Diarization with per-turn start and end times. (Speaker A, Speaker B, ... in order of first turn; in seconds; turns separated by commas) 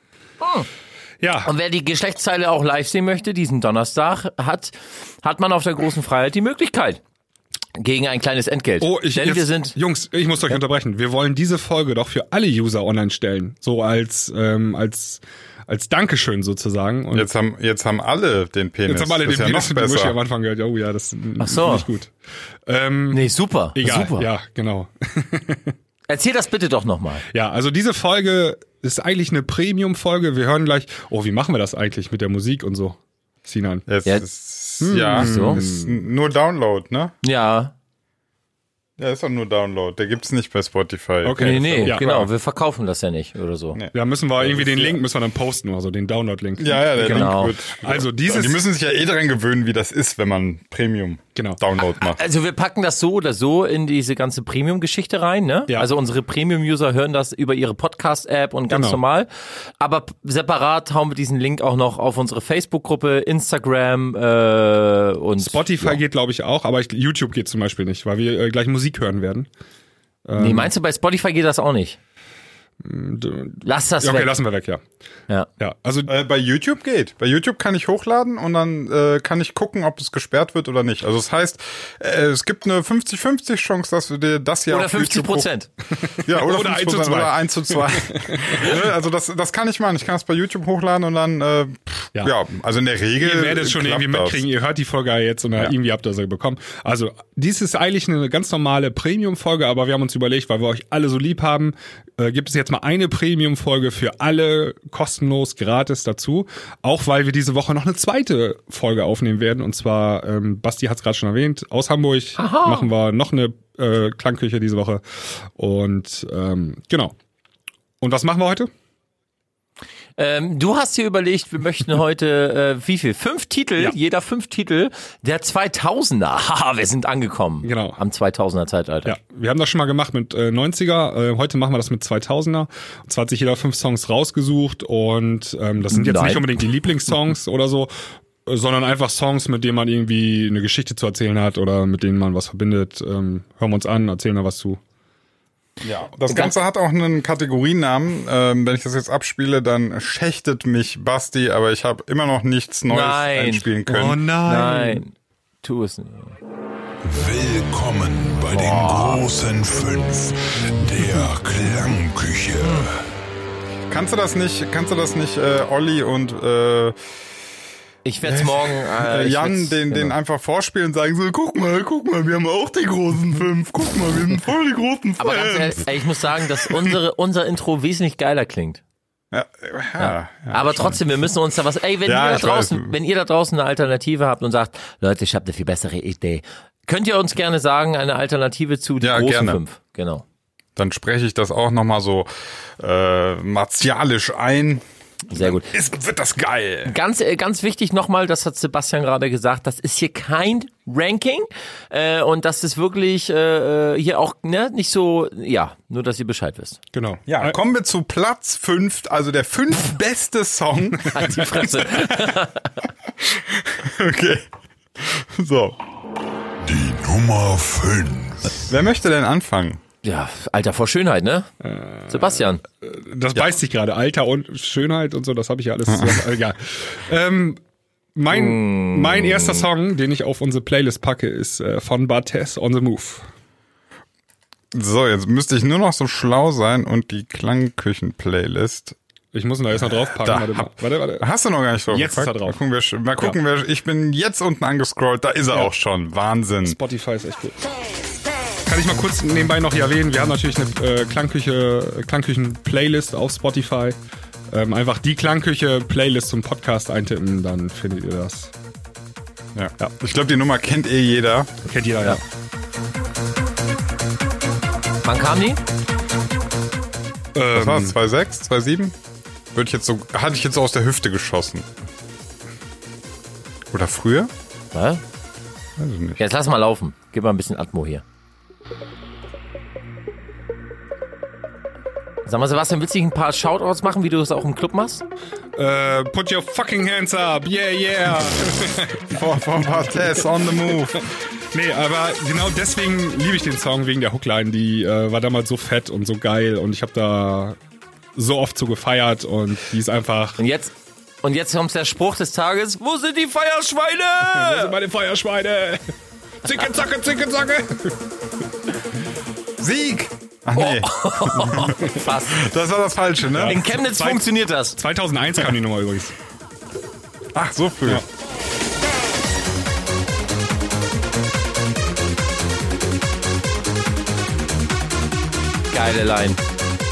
Speaker A: 0.4-0.7, Speaker B: 1.2-1.5, Speaker A: 1.4-7.0, Speaker A: 7.8-9.8, Speaker B: 8.8-17.3, Speaker C: 17.1-20.2, Speaker B: 18.9-22.1, Speaker A: 21.4-21.9, Speaker B: 22.7-25.8, Speaker A: 23.1-24.3, Speaker A: 26.1-27.2, Speaker B: 27.3-33.9, Speaker C: 33.9-37.1, Speaker B: 34.8-36.0, Speaker A: 35.1-35.6, Speaker A: 37.2-37.7, Speaker C: 39.0-42.0, Speaker B: 41.2-42.3, Speaker A: 41.4-43.8, Speaker C: 43.8-45.0, Speaker B: 43.9-48.6, Speaker C: 46.6-52.2, Speaker A: 47.0-47.5, Speaker B: 51.4-51.6, Speaker A: 52.0-59.3, Speaker B: 58.7-59.0, Speaker A: 59.8-66.0, Speaker B: 65.4-69.5, Speaker B: 70.3-70.7, Speaker A: 70.4-72.0, Speaker B: 72.8-74.8, Speaker A: 73.6-74.3, Speaker B: 75.6-76.1, Speaker C: 76.1-85.5, Speaker A: 84.7-85.7, Speaker B: 86.0-88.7, Speaker C: 86.2-94.5, Speaker B: 93.2-117.2, Speaker A: 112.4-112.9, Speaker B: 118.0-118.7, Speaker A: 120.2-129.1, Speaker B: 127.6-128.0, Speaker B: 129.1-137.9, Speaker A: 135.9-136.5, Speaker B: 138.5-144.8, Speaker C: 145.8-154.2, Speaker A: 146.3-146.5, Speaker A: 152.9-153.7, Speaker B: 153.9-155.0, Speaker A: 154.5-156.4, Speaker D: 157.0-163.1, Speaker A: 158.5-159.2, Speaker A: 162.6-162.9, Speaker C: 163.9-167.0, Speaker A: 168.1-170.2, Speaker C: 168.2-177.0, Speaker A: 175.2-178.8, Speaker C: 179.3-181.0, Speaker A: 180.0-190.2, Speaker C: 182.1-182.9, Speaker C: 189.0-189.6, Speaker C: 190.8-196.9, Speaker A: 195.3-195.7, Speaker A: 196.9-206.8, Speaker B: 206.9-207.6, Speaker C: 207.3-212.3, Speaker A: 211.1-212.7, Speaker C: 213.2-214.5, Speaker C: 215.0-215.8, Speaker D: 216.6-218.7, Speaker C: 218.7-219.8, Speaker A: 220.0-221.5, Speaker B: 221.6-227.6, Speaker A: 222.1-222.6, Speaker C: 225.9-226.4, Speaker B: 228.2-233.2, Speaker A: 228.3-229.7, Speaker C: 234.7-239.0, Speaker B: 239.3-241.3, Speaker C: 239.7-246.8, Speaker B: 241.9-242.6, Speaker B: 246.7-247.6, Speaker B: 248.7-254.0, Speaker B: 254.5-258.5, Speaker C: 259.6-261.5, Speaker B: 261.6-262.2, Speaker A: 265.0-265.6, Speaker B: 267.4-268.0, Speaker C: 267.5-268.9, Speaker C: 269.5-271.7, Speaker C: 273.7-274.3, Speaker A: 274.7-275.0, Speaker C: 275.8-276.2, Speaker A: 276.2-278.0, Speaker A: 282.3-285.0, Speaker B: 285.6-289.1, Speaker C: 289.1-291.0, Speaker B: 291.5-297.6, Speaker B: 298.1-300.4, Speaker A: 300.4-304.8, Speaker B: 304.3-308.0, Speaker C: 309.6-313.6, Speaker A: 310.6-312.4, Speaker B: 313.3-316.1, Speaker A: 313.5-314.8, Speaker C: 317.3-318.0, Speaker A: 325.7-326.4